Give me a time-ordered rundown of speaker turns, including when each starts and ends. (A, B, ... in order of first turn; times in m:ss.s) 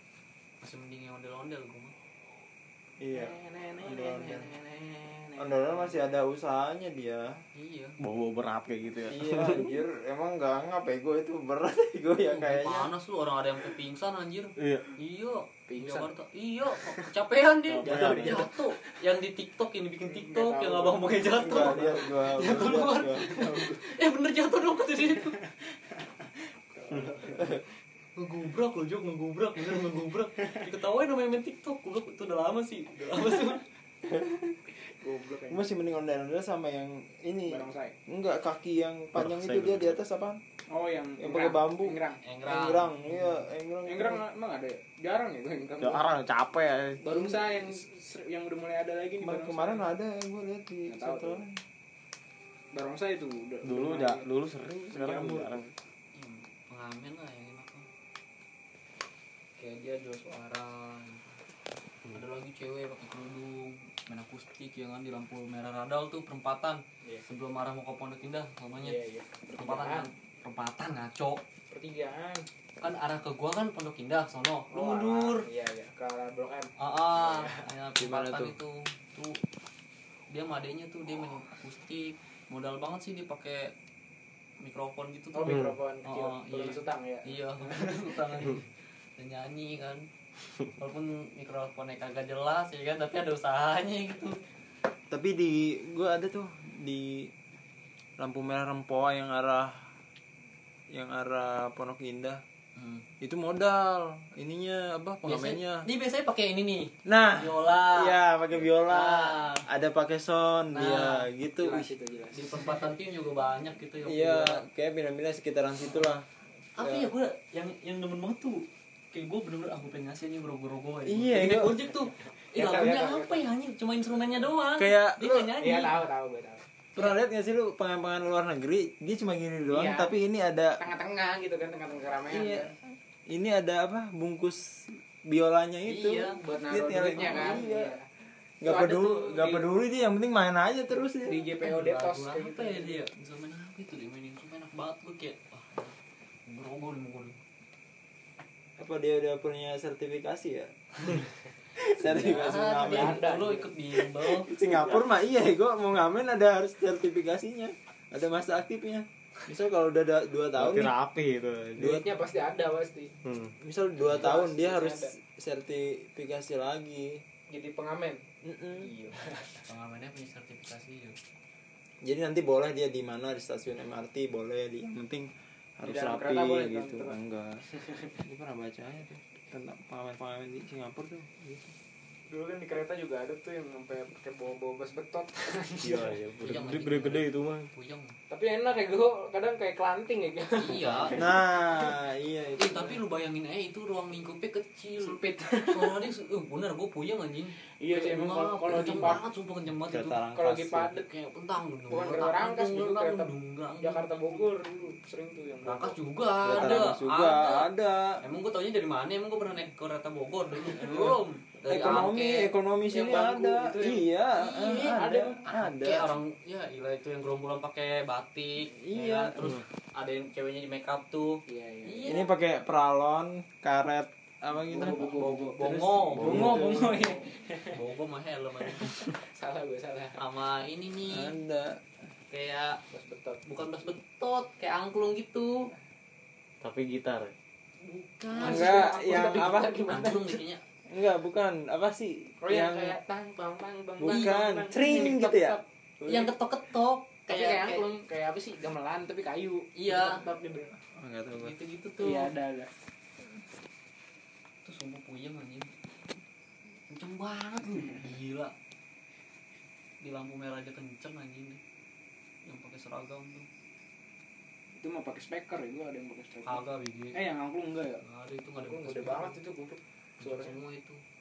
0:00.6-0:01.9 A
0:03.0-0:04.5 B
0:03.1-0:06.1 C
0:05.4-0:07.3 B
0:07.5-0:08.0 A
0:08.0-0:09.7 D
0:09.1-0:12.9 B
0:12.2-0:25.4 A
0:14.6-0:14.9 D
0:15.7-0:16.1 C
0:17.7-0:18.5 D
0:17.8-0:18.6 C
0:20.0-0:23.8 C
0:21.4-0:23.3 B
0:25.4-0:27.6 C
0:28.2-0:33.6 A
0:34.9-0:35.8 C
0:35.5-0:40.4 B
0:37.4-0:38.0 C
0:39.1-0:40.0 D
0:40.7-0:42.2 C
0:41.2-0:44.2 B
0:42.2-0:43.3 A
0:43.8-0:46.1 C
0:45.8-0:47.0 D
0:47.0-0:49.9 C
0:49.2-0:51.6 B
0:50.9-0:51.4 C
0:52.7-0:54.2 C
0:53.6-0:55.7 D
0:54.9-0:55.7 C
0:56.1-0:57.9 A
0:59.6-1:01.4 A
1:02.1-1:09.0 A
1:08.8-1:10.1 C
1:09.6-1:11.4 A
1:11.7-1:12.4 C
1:12.8-1:15.4 A
1:14.7-1:17.6 C
1:16.8-1:19.4 A
1:18.0-1:18.5 B
1:20.3-1:23.7 A
1:24.6-1:30.0 A
1:25.3-1:28.6 C
1:25.4-1:25.7 D
1:30.8-1:34.4 A
1:35.1-1:37.3 B
1:38.2-1:39.9 B
1:40.9-1:42.4 B
1:42.8-1:43.0 A
1:43.2-1:45.8 B
1:45.2-1:48.2 A
1:47.0-1:51.9 B
1:48.9-1:49.7 A
1:50.7-1:51.2 A
1:51.6-1:52.8 C
1:52.3-1:54.6 A
1:54.0-1:56.2 B
1:56.8-2:06.0 A
1:56.8-1:57.0 B
2:01.0-2:01.8 B
2:02.3-2:03.4 C
2:04.8-2:05.6 B
2:05.6-2:06.6 C
2:06.9-2:10.8 B
2:09.7-2:10.1 C
2:10.8-2:12.7 C
2:12.3-2:12.8 B
2:13.3-2:18.0 B
2:15.9-2:16.4 A
2:15.9-2:18.0 C
2:17.2-2:17.6 A
2:18.6-2:21.4 B
2:18.6-2:19.7 C
2:21.2-2:23.0 C
2:21.6-2:27.4 A
2:28.8-2:31.1 B
2:31.8-2:33.4 B
2:32.0-2:34.5 A
2:32.2-2:33.7 C
2:34.1-2:40.9 B
2:34.6-2:35.0 C
2:40.5-2:42.0 D
2:41.8-2:42.0 B
2:41.8-2:43.1 C
2:43.2-2:43.5 D
2:43.6-2:47.2 B
2:44.0-2:45.1 C
2:47.5-2:48.2 C
2:48.4-2:48.9 B
2:48.8-2:49.6 C
2:49.6-2:51.2 A
2:52.0-2:57.6 B
2:55.8-2:57.1 C
2:57.7-2:58.2 C
2:58.2-3:01.7 B
3:02.3-3:06.2 C
3:05.8-3:07.7 D
3:06.4-3:08.2 A
3:08.3-3:12.0 C
3:10.6-3:11.2 A
3:11.1-3:12.9 B
3:12.6-3:15.2 A
3:15.0-3:16.1 C
3:15.7-3:20.2 A
3:17.8-3:19.2 C
3:19.9-3:20.9 B
3:20.3-3:21.0 C
3:20.9-3:24.5 A
3:21.9-3:26.9 C
3:25.6-3:27.7 A
3:26.4-3:28.2 B
3:28.2-3:32.5 A
3:30.7-3:31.1 C
3:30.8-3:36.2 B
3:31.7-3:32.0 C
3:32.9-3:34.0 C
3:34.3-3:42.3 A
3:34.8-3:35.4 C
3:38.8-3:39.6 B
3:41.5-3:42.1 C
3:42.0-3:47.1 B
3:44.6-3:47.8 C
3:44.8-3:46.9 A
3:46.2-3:46.5 D
3:47.7-3:49.1 A
3:48.6-3:50.2 C
3:50.2-3:51.3 A
3:51.1-3:51.8 B
3:52.3-3:52.8 A
3:52.9-3:53.4 C
3:53.4-3:55.7 A
3:56.6-3:57.3 D
3:57.8-3:59.1 A
3:58.3-4:00.4 C
3:58.4-3:59.8 B
3:59.9-4:00.6 A
4:00.9-4:03.0 B
4:02.4-4:05.6 C
4:04.0-4:05.6 B
4:04.0-4:04.4 A
4:06.0-4:07.9 A
4:07.3-4:10.7 C
4:09.8-4:10.2 A
4:10.9-4:11.5 B
4:11.4-4:12.3 A
4:12.0-4:12.7 C
4:14.6-4:15.7 A
4:16.9-4:18.5 A
4:20.0-4:21.6 A
4:22.4-4:23.5 A
4:24.8-4:28.0 C
4:26.4-4:27.2 A
4:28.0-4:29.4 A
4:28.6-4:30.6 C
4:30.2-4:31.0 A